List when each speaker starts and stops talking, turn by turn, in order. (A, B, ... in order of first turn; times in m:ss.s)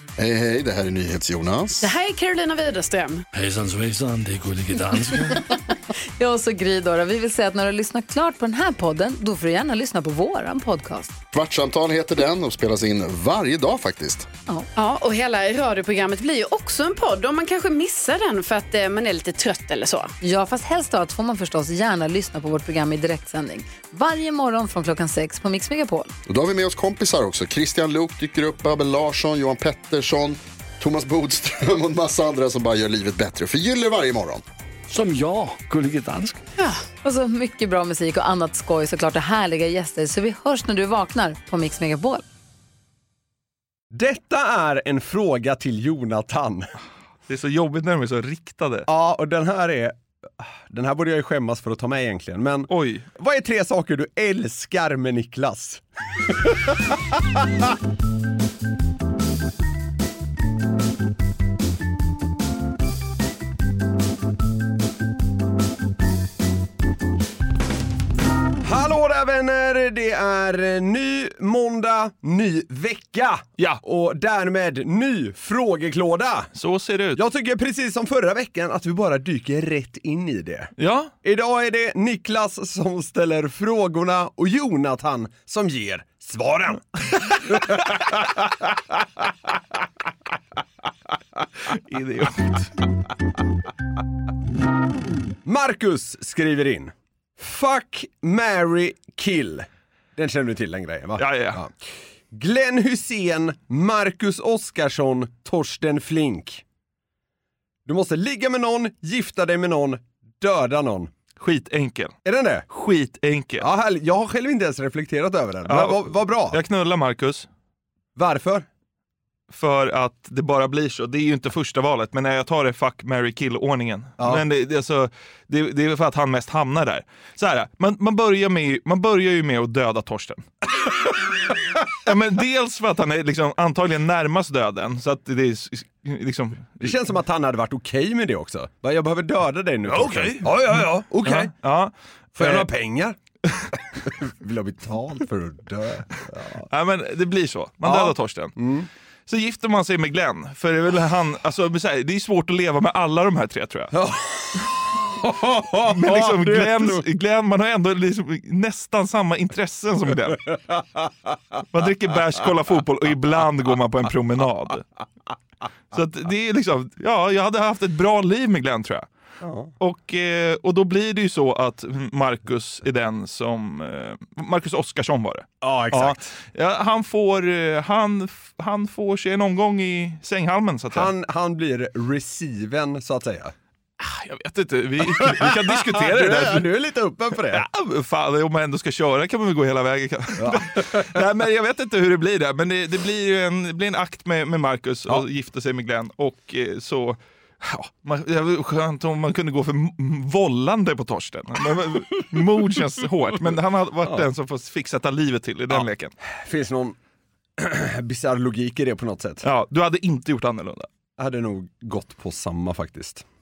0:00.2-0:01.9 A
0:01.8-0:03.2 B
0:03.3-0:05.4 C
0:06.2-0:11.2 D
0:11.3-0:14.3 A
0:14.8-0:20.1 B
0:20.2-0:26.1 D
0:26.3-0:34.4 A
0:34.9-0:36.4 C
0:36.6-0:42.2 D
0:43.9-0:46.7 E
0:47.3-0:48.9 F
0:48.9-0:57.6 E
0:52.7-0:53.1 F
1:08.6-1:16.5 E
1:16.6-1:17.2 F
1:17.2-1:20.7 E
1:20.8-1:21.1 F
1:21.2-1:29.3 E
1:31.7-1:32.8 F
1:35.4-1:41.7 E
1:41.2-1:41.6 F
1:42.3-1:46.6 E
1:47.9-1:51.1 E
1:51.4-1:52.2 F
1:52.2-1:52.7 E
1:52.7-1:53.7 F
1:53.6-1:56.6 E
1:55.7-1:57.5 F
1:58.2-1:58.7 E
1:59.5-2:10.5 F
2:12.0-2:17.0 F
2:16.8-2:21.5 E
2:19.9-2:22.7 F
2:22.4-2:23.2 E
2:24.0-2:26.7 E
2:26.7-2:28.6 F
2:27.8-2:28.9 E
2:29.3-2:34.0 F
2:33.9-2:37.0 E
2:35.9-2:40.5 F
2:41.7-2:44.9 F
2:45.9-2:49.1 F
2:49.4-2:49.7 E
2:49.8-3:01.1 F
2:55.6-2:56.4 E
3:00.9-3:03.5 E
3:04.0-3:06.7 F
3:05.0-3:07.6 E
3:07.4-3:26.1 F
3:10.4-3:11.2 E
3:25.7-3:27.0 E
3:27.6-3:29.4 E
3:29.4-3:30.9 F
3:31.2-3:33.2 E